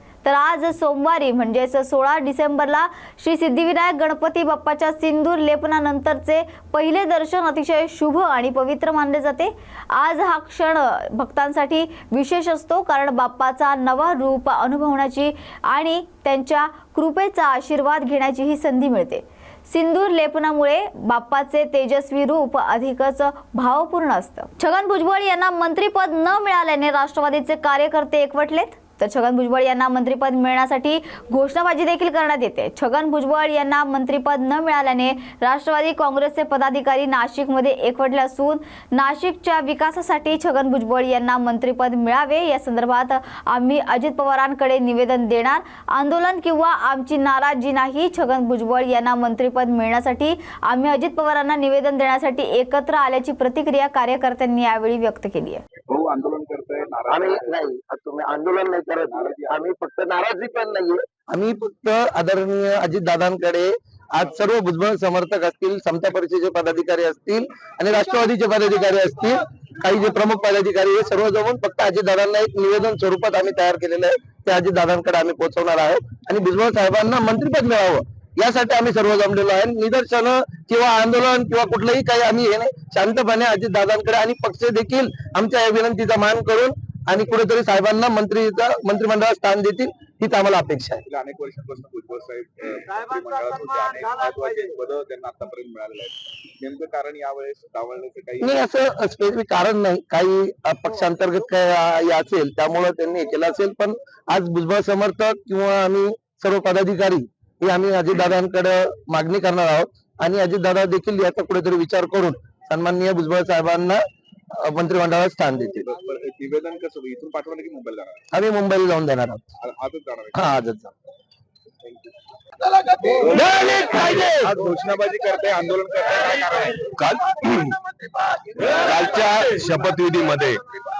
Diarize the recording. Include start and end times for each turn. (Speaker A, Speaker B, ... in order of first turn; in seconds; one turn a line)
Speaker A: 0.2-55.6
Speaker B: 55.9-57.5
Speaker C: 57.1-91.0
Speaker B: 59.1-59.6
Speaker B: 91.1-98.6
Speaker C: 98.4-114.0
Speaker C: 114.5-115.9
Speaker B: 115.9-118.2
Speaker C: 118.3-119.4
Speaker B: 119.6-120.4
Speaker C: 120.3-120.9
Speaker B: 121.8-122.1
Speaker C: 123.2-124.5
Speaker B: 124.3-126.9
Speaker D: 127.0-127.8
Speaker D: 128.8-130.6